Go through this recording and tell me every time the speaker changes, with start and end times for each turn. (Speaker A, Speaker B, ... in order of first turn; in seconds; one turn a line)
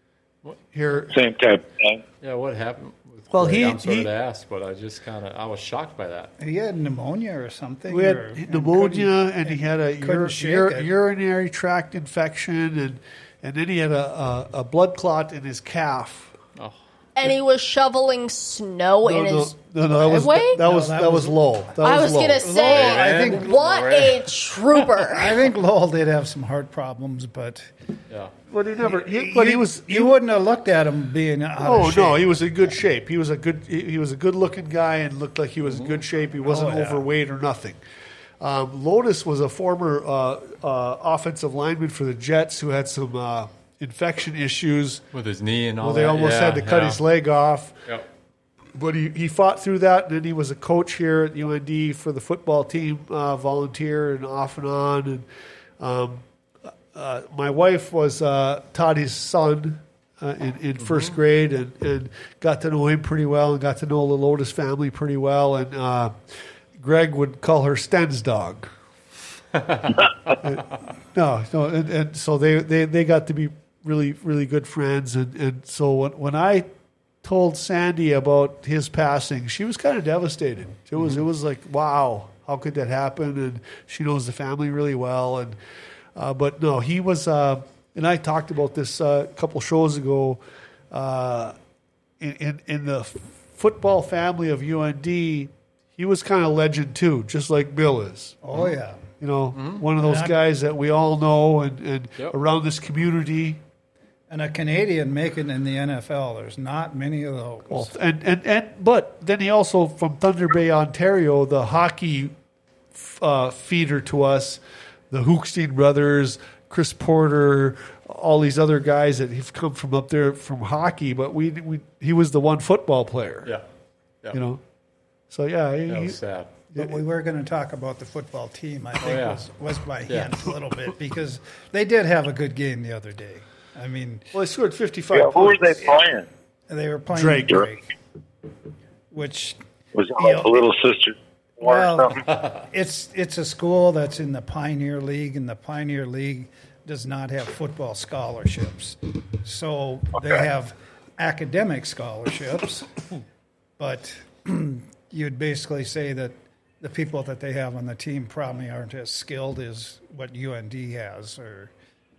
Speaker A: 0.7-1.1
Speaker B: 1.1-2.0
Speaker C: 2.2-6.3
Speaker A: 3.3-4.1
Speaker D: 6.4-10.9
Speaker A: 7.9-16.3
Speaker E: 17.2-20.6
Speaker A: 19.0-22.5
Speaker D: 20.6-21.7
Speaker E: 21.8-25.4
Speaker D: 22.4-23.5
Speaker C: 22.6-24.3
Speaker D: 25.1-27.7
Speaker A: 28.5-30.2
Speaker D: 28.8-32.2
Speaker A: 31.6-37.8
Speaker C: 35.7-36.0
Speaker D: 36.4-37.1
Speaker A: 38.4-45.0
Speaker C: 45.1-47.0
Speaker A: 45.8-47.8
Speaker A: 48.7-55.3
Speaker A: 55.8-56.2
Speaker A: 56.9-66.2
Speaker C: 60.8-61.1
Speaker A: 66.8-68.7
Speaker C: 69.6-69.8
Speaker A: 70.4-76.7
Speaker A: 77.2-85.6
Speaker A: 86.2-91.6
Speaker A: 92.2-98.4
Speaker D: 98.4-99.1
Speaker A: 99.2-103.6
Speaker C: 99.5-99.8
Speaker D: 100.0-100.4
Speaker D: 104.3-107.9
Speaker A: 107.7-112.3
Speaker A: 112.9-123.5
Speaker A: 124.3-124.6
Speaker A: 125.3-126.2
Speaker C: 125.9-126.6
Speaker A: 126.7-127.0
Speaker D: 126.8-134.3
Speaker C: 129.0-129.4
Speaker C: 130.1-130.5
Speaker A: 134.3-135.8
Speaker B: 135.1-136.3
Speaker D: 136.7-137.8
Speaker A: 137.1-137.6
Speaker D: 139.1-139.6
Speaker B: 139.9-142.2
Speaker D: 140.2-140.6
Speaker D: 141.6-152.9
Speaker D: 153.8-161.7